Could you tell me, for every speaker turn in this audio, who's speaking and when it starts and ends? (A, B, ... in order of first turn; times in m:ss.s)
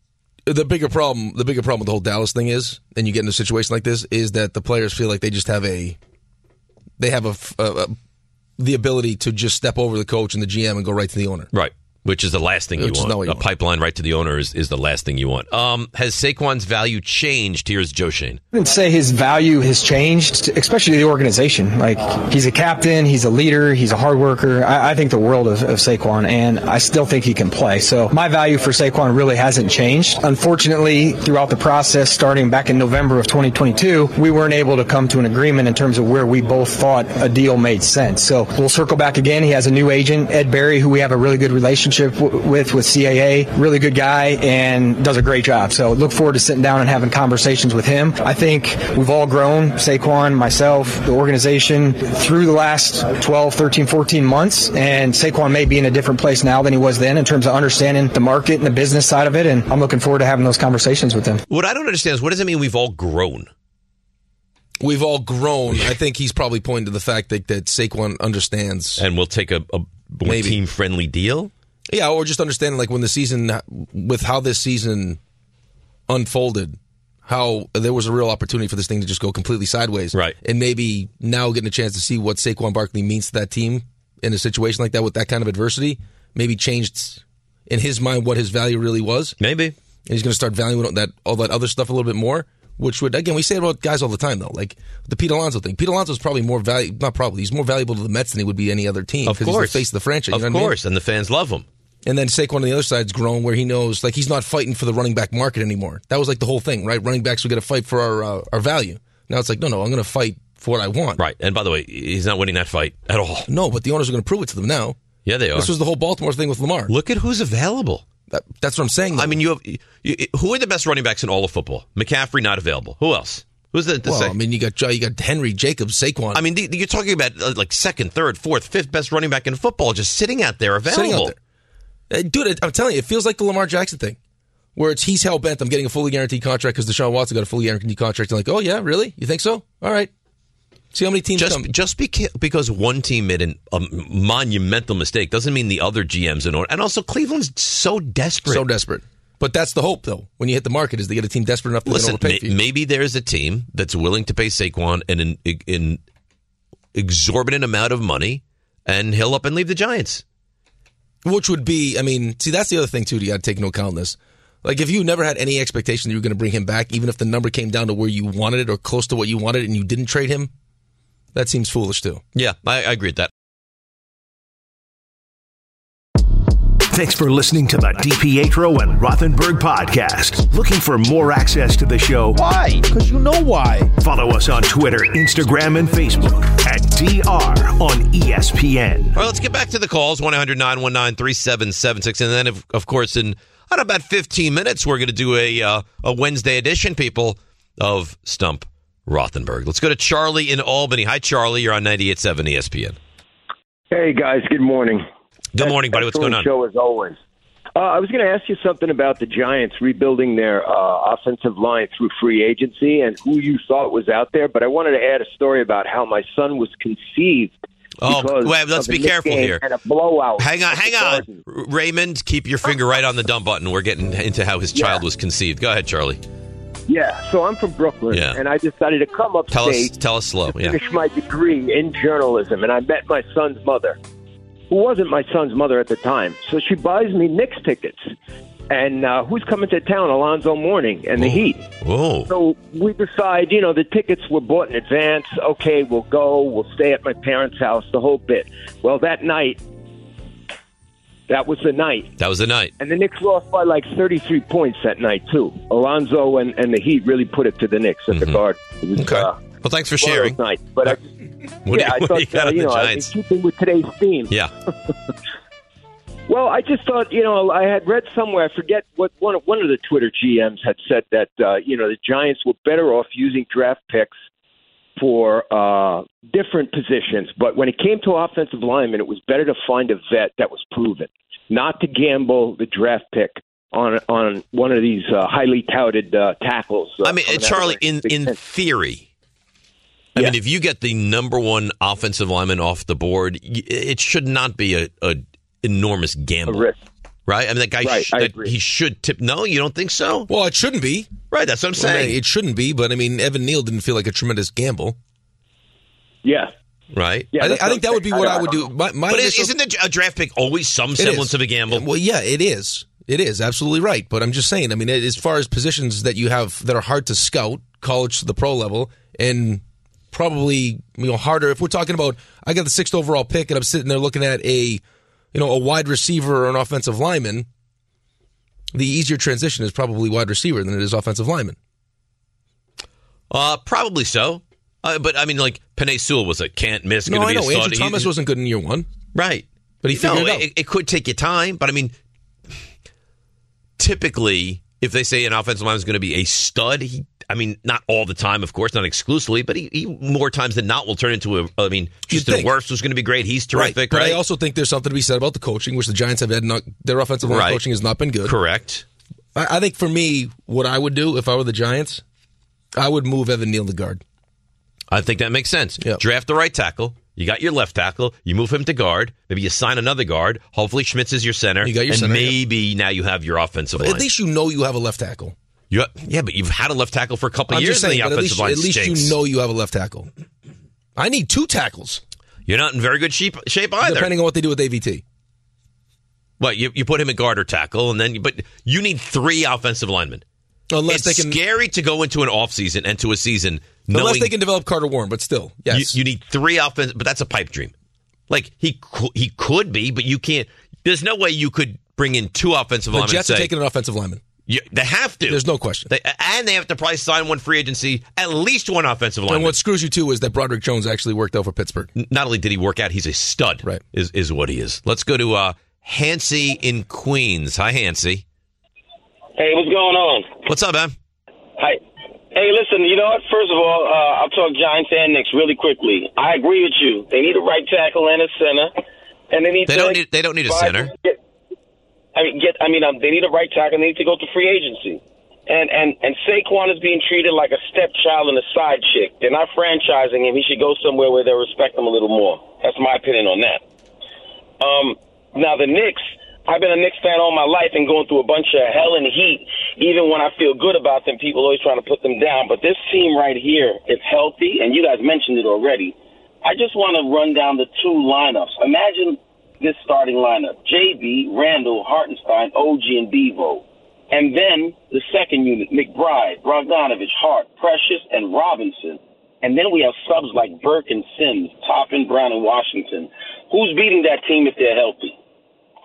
0:00.5-0:06.0 A
0:07.0-0:08.0 A
0:08.6-0:11.5 A
0:11.5-0:18.4 B
0:12.8-0:13.4 A
0:18.5-1:01.4 C
1:01.5-1:03.5 B
1:04.8-1:09.0 A
1:09.0-1:11.5 B
1:10.2-1:10.6 A
1:11.9-1:15.2 A
1:16.1-1:29.4 A
1:29.4-1:29.8 B
1:30.1-1:40.8 A
1:39.3-1:41.7 B
1:42.0-1:51.2 A
1:51.2-1:53.5 B
1:53.5-1:55.0 A
1:55.3-1:55.7 B
1:55.5-1:56.9 A
1:56.9-1:58.0 B
1:58.3-1:59.4 A
1:59.2-2:04.4 B
2:04.0-2:06.4 A
2:06.3-2:11.3 B
2:10.9-2:11.4 A
2:12.1-2:14.2 A
2:14.8-2:20.1 A
2:20.9-2:21.7 A
2:21.4-2:28.7 B
2:28.5-2:32.6 A
2:31.9-2:36.0 B
2:36.9-2:40.2 B
2:41.2-2:50.5 A
2:51.3-2:52.2 A
2:52.4-2:53.3 B
2:56.9-3:02.4 D
3:02.4-3:02.8 B
3:02.8-3:03.9 A
3:04.0-3:09.2 D
3:09.2-3:23.0 B
3:23.9-3:25.1 E
3:25.5-3:26.5 B
3:25.6-3:27.2 E
3:27.8-3:37.5 E
3:38.0-3:39.6 B
3:38.0-3:41.4 E
3:40.4-3:46.2 B
3:44.7-3:45.0 E
3:46.9-3:49.9 E
3:48.1-3:48.4 B
3:49.5-3:50.8 B
3:50.5-3:54.0 E
3:54.7-3:58.1 E
3:58.7-4:01.6 E
4:01.2-4:02.3 B
4:02.3-4:09.6 E
4:11.3-4:12.1 E
4:12.2-4:12.7 B
4:12.8-4:19.4 E
4:18.1-4:18.4 B
4:19.0-4:21.0 B
4:20.0-4:21.0 E
4:21.6-4:23.1 B
4:21.7-4:24.3 E
4:26.3-4:34.1 E
4:35.0-4:48.4 E
4:47.0-4:49.1 B
4:50.2-4:56.7 B
4:56.5-4:56.8 E
4:57.3-5:00.3 B
4:57.8-4:58.5 E
5:00.3-5:01.1 A
5:01.3-5:02.2 B
5:01.8-5:05.0 A
5:06.2-5:06.5 E
5:06.9-5:07.3 B
5:07.3-5:08.7 E
5:07.4-5:09.5 A
5:09.1-5:11.8 B
5:11.0-5:27.5 A
5:28.7-5:31.6 A
5:33.3-5:38.1 B
5:37.1-5:38.9 A
5:39.1-5:41.9 B
5:39.8-5:40.5 A
5:43.8-5:54.2 B
5:52.1-5:52.5 A
5:53.5-5:58.4 A
5:57.3-5:57.6 B
5:58.2-5:58.8 B
5:59.4-6:02.0 A
6:02.7-6:04.0 A
6:04.9-6:14.0 B
6:11.6-6:12.4 A
6:13.8-6:15.4 A
6:15.7-6:19.2 B
6:17.5-6:20.1 A
6:21.0-6:22.0 A
6:22.5-6:24.1 B
6:23.8-6:25.0 A
6:26.4-6:30.2 B
6:30.7-6:31.4 A
6:30.9-6:34.3 B
6:33.9-6:36.0 A
6:35.7-6:37.7 B
6:38.3-6:43.5 B
6:42.9-6:44.2 A
6:44.5-6:49.6 B
6:45.3-6:45.9 A
6:49.3-6:51.9 A
6:52.0-6:58.2 B
6:59.4-7:00.4 F
7:00.5-7:00.9 B
7:02.3-7:08.7 F
7:09.3-7:11.2 F
7:09.7-7:10.9 B
7:12.2-7:23.6 F
7:24.6-7:55.1 F